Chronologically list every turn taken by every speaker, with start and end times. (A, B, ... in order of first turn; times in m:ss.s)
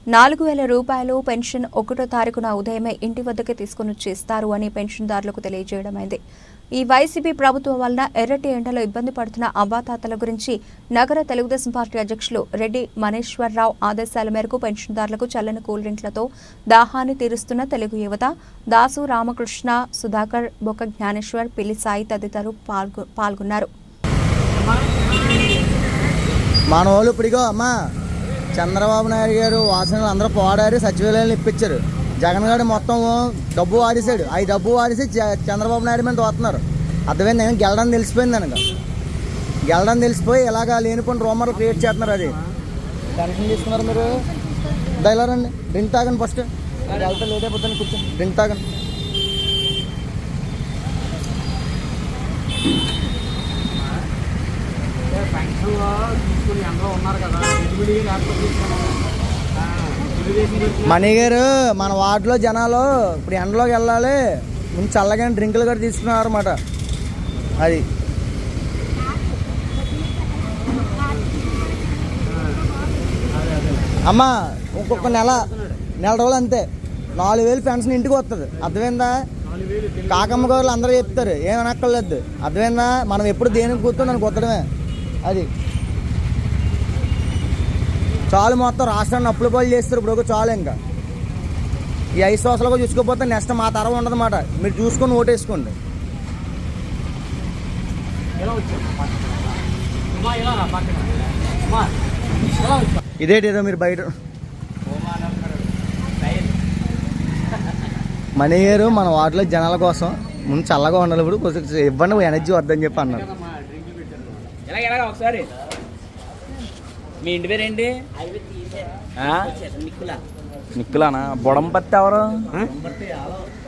0:00.1-0:06.2 A
0:06.8-0:23.7 A
0:26.7-0:27.7 B
0:28.5-0:38.6 B
0:39.7-0:42.4 B
0:43.2-0:44.1 B
0:44.9-0:48.6 B
0:55.1-0:59.0 C
0:59.8-1:00.8 C
1:00.8-1:06.6 B
1:07.6-1:07.8 B
1:14.0-1:15.5 B
1:16.0-1:19.1 B
1:19.7-1:20.1 C
1:20.1-1:24.6 B
1:28.3-1:30.8 B
1:32.2-1:35.7 B
1:38.4-1:41.9 C
1:42.5-1:43.0 C
1:43.2-1:44.1 B
1:44.9-1:45.7 C
1:48.4-1:53.3 B
1:53.3-1:54.6 C
1:54.6-1:55.5 D
1:57.2-1:58.0 D
1:59.2-2:00.2 D
2:00.7-2:02.6 D
2:02.8-2:03.4 B